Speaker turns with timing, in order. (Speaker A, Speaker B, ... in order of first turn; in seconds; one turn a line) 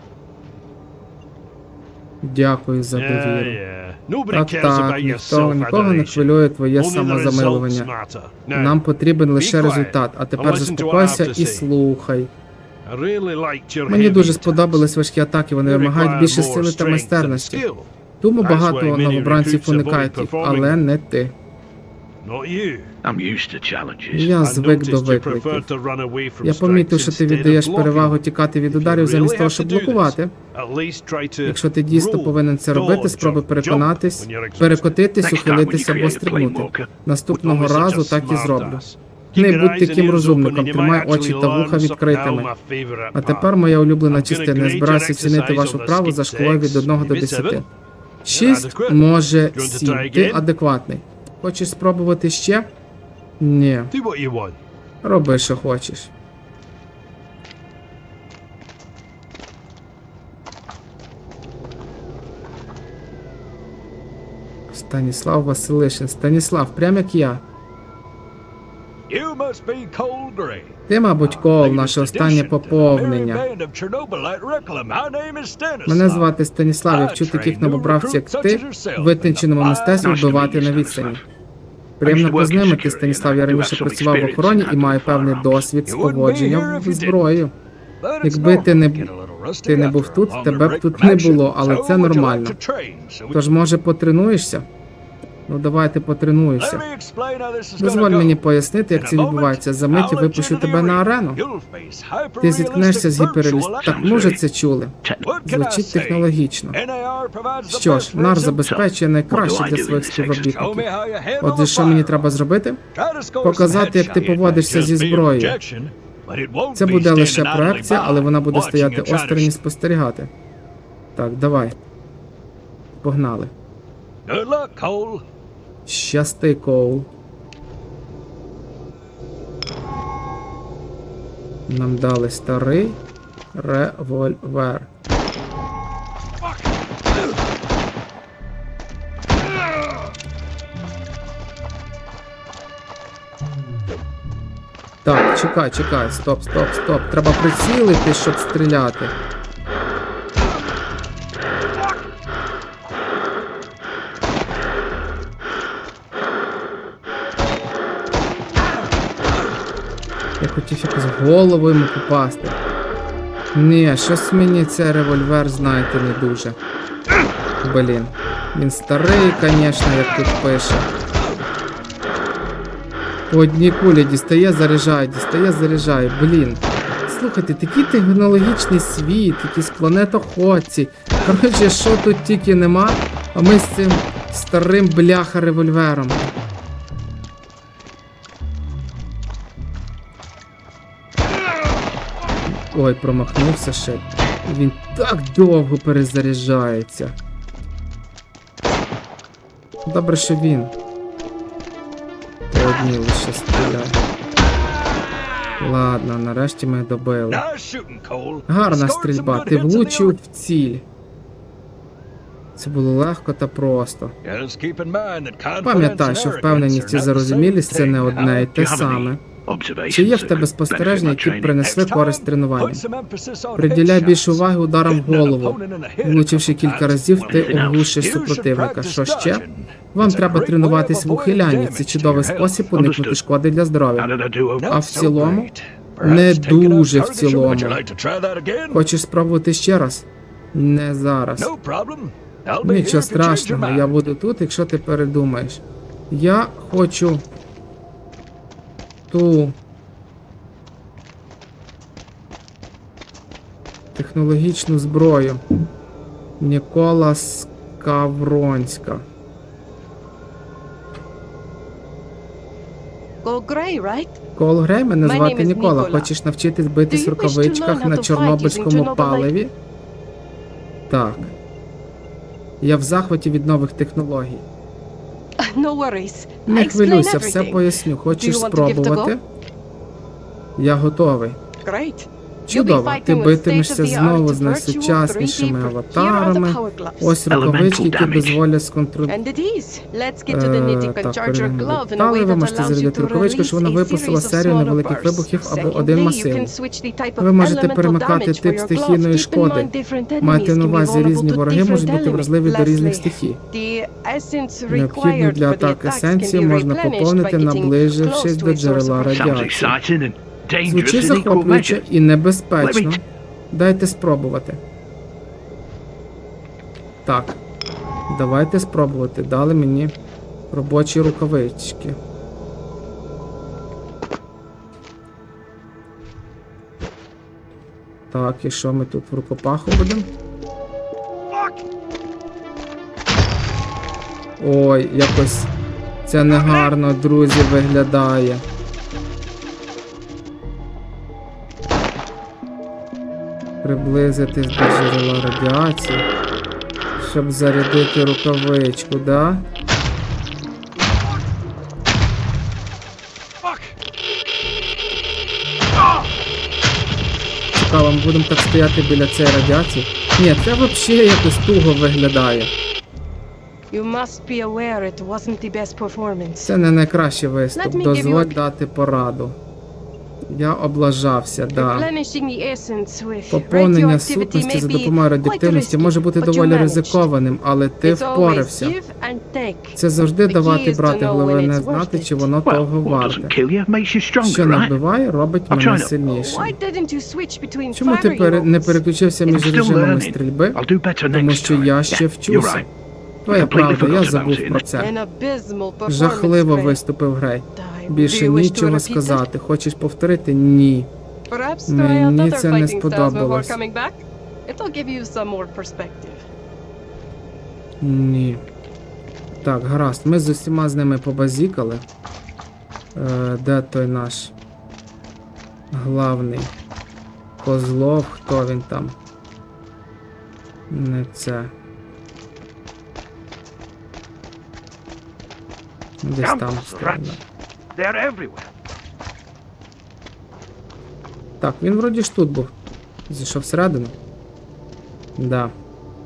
Speaker A: 2.2-3.6
Speaker B: 2.9-8.8
Speaker A: 4.3-7.9
Speaker A: 8.5-12.3
Speaker B: 9.3-11.7
Speaker B: 12.8-14.7
Speaker A: 13.9-17.6
Speaker B: 15.6-17.9
Speaker A: 18.2-21.3
Speaker B: 18.4-20.8
Speaker B: 22.2-22.9
Speaker C: 23.0-24.3
Speaker A: 24.1-25.7
Speaker B: 24.4-35.0
Speaker A: 26.4-30.3
Speaker A: 31.4-38.8
Speaker C: 35.2-36.9
Speaker B: 37.3-43.5
Speaker A: 39.3-42.5
Speaker A: 43.1-47.6
Speaker B: 44.1-47.6
Speaker A: 48.2-52.7
Speaker B: 48.3-50.5
Speaker A: 53.4-53.9
Speaker B: 53.9-54.6
Speaker A: 55.0-56.1
Speaker A: 64.7-67.4
Speaker D: 69.1-76.3
Speaker A: 70.9-73.4
Speaker A: 75.8-81.2
Speaker D: 76.9-80.8
Speaker C: 80.0-81.2
Speaker A: 82.0-87.5
Speaker C: 82.0-85.7
Speaker D: 85.8-87.2
Speaker D: 88.0-93.4
Speaker A: 88.2-89.1
Speaker A: 89.6-92.5
Speaker A: 93.3-94.7
Speaker A: 95.5-96.8
Speaker D: 96.6-98.4
Speaker A: 97.8-101.4
Speaker D: 98.9-104.4
Speaker A: 102.4-106.8
Speaker C: 103.8-104.3
Speaker D: 105.2-108.5
Speaker A: 107.7-110.8
Speaker C: 108.4-110.7
Speaker D: 110.5-112.3
Speaker A: 111.4-112.8
Speaker D: 112.9-119.5
Speaker A: 113.4-115.6
Speaker A: 116.7-120.3
Speaker A: 121.1-121.8
Speaker A: 123.0-123.5
Speaker D: 124.2-125.2
Speaker A: 125.8-127.1
Speaker A: 131.7-133.0
Speaker A: 133.5-134.9
Speaker A: 145.0-149.1
Speaker A: 160.4-162.6
Speaker A: 163.5-166.6
Speaker A: 167.6-170.9
Speaker A: 173.3-186.3
Speaker A: 192.5-197.1
Speaker A: 199.8-200.7
Speaker A: 202.5-204.0
Speaker A: 205.6-207.4
Speaker D: 207.3-210.2
Speaker A: 208.5-210.8
Speaker A: 212.6-214.1
Speaker D: 214.2-218.4
Speaker A: 215.6-219.2
Speaker C: 218.2-221.7
Speaker A: 219.9-222.8
Speaker D: 221.6-232.6
Speaker A: 223.6-234.1
Speaker C: 227.2-228.1
Speaker C: 232.7-233.2
Speaker C: 234.0-235.6
Speaker D: 234.6-238.8
Speaker A: 234.7-237.8
Speaker A: 238.7-241.5
Speaker D: 241.4-243.9
Speaker A: 242.6-247.2
Speaker A: 249.1-249.6
Speaker A: 253.9-255.4
Speaker A: 256.4-259.0
Speaker E: 263.2-264.2
Speaker A: 264.4-269.5
Speaker E: 265.0-266.1
Speaker E: 266.9-269.3
Speaker A: 270.9-271.3
Speaker A: 272.6-274.4
Speaker E: 275.4-279.1
Speaker A: 276.4-279.2
Speaker A: 280.6-281.4
Speaker E: 281.6-287.2
Speaker A: 282.4-289.2
Speaker C: 287.3-288.4
Speaker E: 289.0-309.5
Speaker A: 290.3-296.5
Speaker A: 297.2-303.4
Speaker A: 304.7-309.8
Speaker C: 309.1-311.8
Speaker A: 310.6-314.6
Speaker C: 312.6-313.0
Speaker A: 317.0-317.4
Speaker A: 318.1-319.9
Speaker A: 320.5-322.0
Speaker A: 328.1-330.1
Speaker A: 334.4-335.5
Speaker A: 336.1-338.4
Speaker A: 343.6-346.1
Speaker A: 347.0-349.4
Speaker A: 357.5-362.5
Speaker E: 363.7-366.5
Speaker A: 366.4-369.4
Speaker E: 367.6-368.4
Speaker A: 370.3-371.9
Speaker E: 371.5-377.0
Speaker A: 373.3-378.8
Speaker E: 377.8-382.3
Speaker A: 379.8-383.3
Speaker C: 382.4-384.8
Speaker A: 384.2-386.6
Speaker C: 385.5-385.9
Speaker E: 386.0-388.8
Speaker A: 387.7-392.7
Speaker C: 389.2-392.7
Speaker A: 393.2-394.9
Speaker C: 393.3-394.7
Speaker E: 394.8-396.8
Speaker A: 395.9-400.9
Speaker E: 397.5-399.3
Speaker E: 401.3-406.2
Speaker A: 401.7-403.6
Speaker A: 407.8-408.4
Speaker A: 409.4-411.8
Speaker A: 412.9-414.3
Speaker A: 415.7-416.5
Speaker A: 417.4-418.9
Speaker A: 420.7-421.5
Speaker A: 426.0-427.2
Speaker C: 426.2-427.1
Speaker C: 427.8-428.4
Speaker A: 431.4-432.5
Speaker A: 433.1-433.9
Speaker A: 435.2-435.5